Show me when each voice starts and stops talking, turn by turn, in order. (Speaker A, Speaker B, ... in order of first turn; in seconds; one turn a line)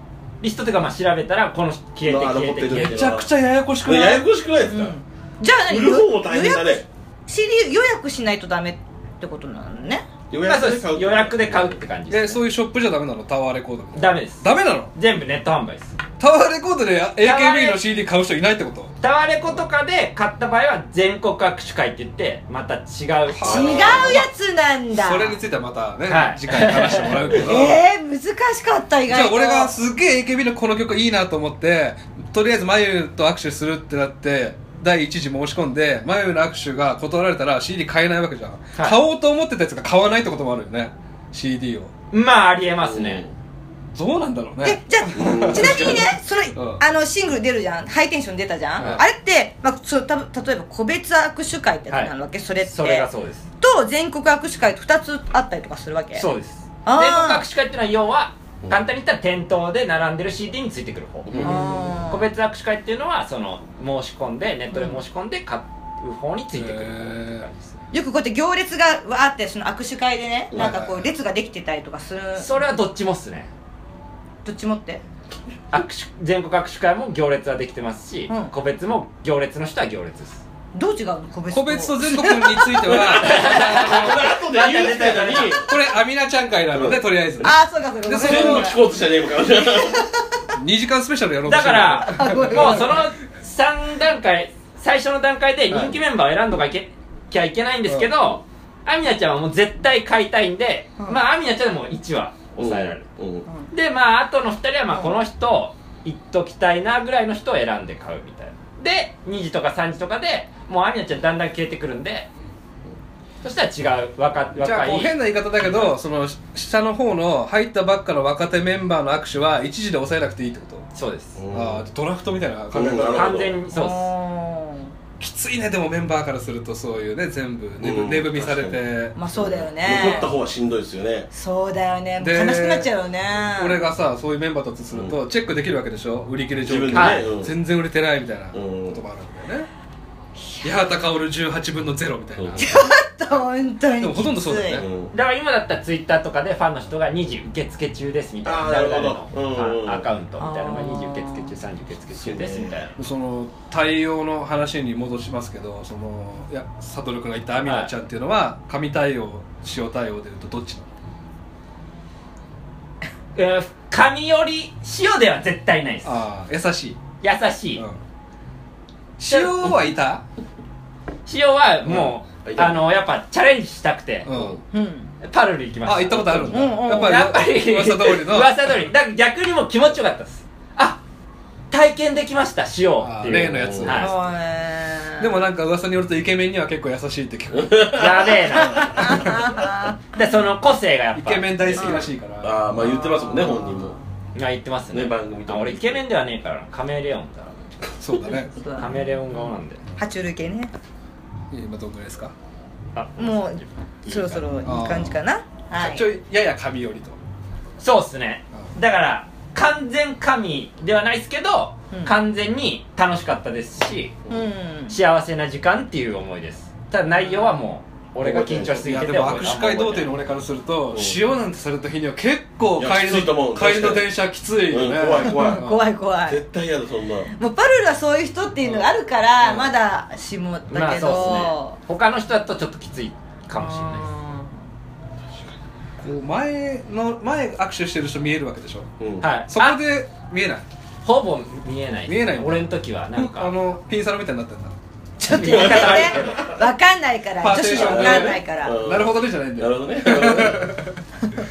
Speaker A: 0.4-3.0
Speaker B: 2.0-3.3
Speaker C: 2.7-4.2
Speaker B: 3.8-5.0
Speaker D: 4.7-10.0
Speaker B: 5.7-6.8
Speaker B: 10.3-11.8
Speaker A: 10.4-12.4
Speaker C: 12.1-14.9
Speaker A: 13.9-16.0
Speaker C: 16.2-18.9
Speaker A: 17.2-17.8
Speaker A: 19.0-24.1
Speaker D: 23.4-25.4
Speaker C: 23.4-24.3
Speaker B: 23.4-24.2
Speaker C: 24.9-27.8
Speaker A: 26.1-27.5
Speaker D: 27.3-29.7
Speaker C: 29.1-41.9
Speaker A: 42.1-43.2
Speaker B: 42.8-43.3
Speaker C: 43.9-46.8
Speaker D: 44.6-53.1
Speaker B: 45.2-46.0
Speaker A: 52.6-53.4
Speaker D: 53.6-56.3
Speaker A: 56.1-67.8
Speaker D: 56.8-57.4
Speaker B: 61.2-61.8
Speaker D: 61.4-62.2
Speaker D: 64.7-65.0
Speaker C: 66.5-67.4
Speaker D: 67.9-72.6
Speaker B: 70.5-70.8
Speaker C: 70.5-71.1
Speaker A: 72.3-73.5
Speaker D: 74.4-75.0
Speaker A: 75.7-80.4
Speaker D: 80.7-83.1
Speaker C: 81.5-84.3
Speaker B: 82.9-85.7
Speaker A: 83.1-85.6
Speaker C: 85.6-88.7
Speaker B: 86.7-87.5
Speaker D: 87.4-88.8
Speaker B: 88.1-90.1
Speaker D: 89.6-90.1
Speaker C: 90.5-92.9
Speaker A: 91.5-103.1
Speaker D: 92.0-93.1
Speaker B: 102.6-103.5
Speaker A: 103.7-112.3
Speaker A: 113.4-115.9
Speaker C: 114.5-120.9
Speaker A: 120.9-121.4
Speaker B: 121.4-121.8
Speaker C: 121.5-123.4
Speaker B: 122.7-123.5
Speaker A: 123.1-124.1
Speaker D: 123.7-124.9
Speaker C: 125.2-129.1
Speaker B: 127.8-128.8
Speaker D: 129.2-130.3
Speaker B: 129.3-131.3
Speaker D: 131.3-133.8
Speaker C: 132.2-132.9
Speaker C: 133.5-139.7
Speaker B: 136.6-137.5
Speaker A: 136.9-137.2
Speaker B: 138.5-139.0
Speaker C: 140.6-142.8
Speaker B: 142.4-142.6
Speaker D: 142.6-144.8
Speaker C: 144.0-144.8
Speaker B: 144.7-145.1
Speaker A: 145.1-152.9
Speaker B: 148.4-150.0
Speaker D: 150.4-151.5
Speaker B: 152.2-152.8
Speaker C: 152.9-160.9
Speaker A: 157.6-157.9
Speaker A: 163.3-166.1
Speaker C: 166.0-167.0
Speaker A: 167.2-167.8
Speaker C: 169.2-170.2
Speaker A: 169.3-169.8
Speaker A: 171.2-174.3
Speaker B: 172.4-172.8
Speaker C: 174.2-174.6
Speaker B: 174.3-174.6
Speaker D: 174.7-175.1
Speaker A: 175.2-181.0
Speaker C: 175.8-178.5
Speaker D: 176.5-177.2
Speaker A: 181.7-184.1
Speaker C: 183.0-184.3
Speaker B: 183.3-184.0
Speaker D: 183.9-185.3
Speaker C: 185.2-188.1
Speaker B: 187.6-188.3
Speaker A: 187.9-189.2
Speaker C: 188.6-189.4
Speaker D: 188.7-190.0
Speaker A: 190.1-192.1
Speaker C: 191.2-192.7
Speaker D: 191.8-192.1
Speaker B: 192.4-193.9
Speaker D: 192.7-194.0
Speaker A: 194.3-197.7
Speaker B: 194.9-196.0
Speaker C: 198.0-198.6
Speaker D: 198.5-200.7
Speaker A: 198.8-199.8
Speaker C: 201.5-202.3
Speaker A: 202.9-204.5
Speaker D: 203.2-206.1
Speaker C: 204.6-205.2
Speaker C: 205.7-207.2
Speaker A: 207.8-214.1
Speaker D: 214.3-214.9
Speaker A: 214.9-220.1
Speaker D: 217.2-217.6
Speaker B: 218.2-219.3
Speaker C: 218.3-225.8
Speaker B: 220.9-221.2
Speaker B: 222.8-224.1
Speaker B: 224.7-225.6
Speaker D: 225.2-226.4
Speaker B: 226.2-227.3
Speaker D: 227.3-231.8
Speaker C: 229.4-229.7
Speaker A: 230.7-234.1
Speaker D: 233.5-234.5
Speaker C: 236.0-238.9
Speaker B: 239.0-239.2
Speaker A: 239.2-239.8
Speaker C: 239.5-240.6
Speaker A: 241.0-243.5
Speaker C: 242.1-244.8
Speaker D: 245.2-248.8
Speaker A: 245.3-246.5
Speaker B: 245.5-246.4
Speaker C: 247.4-251.0
Speaker B: 247.7-250.7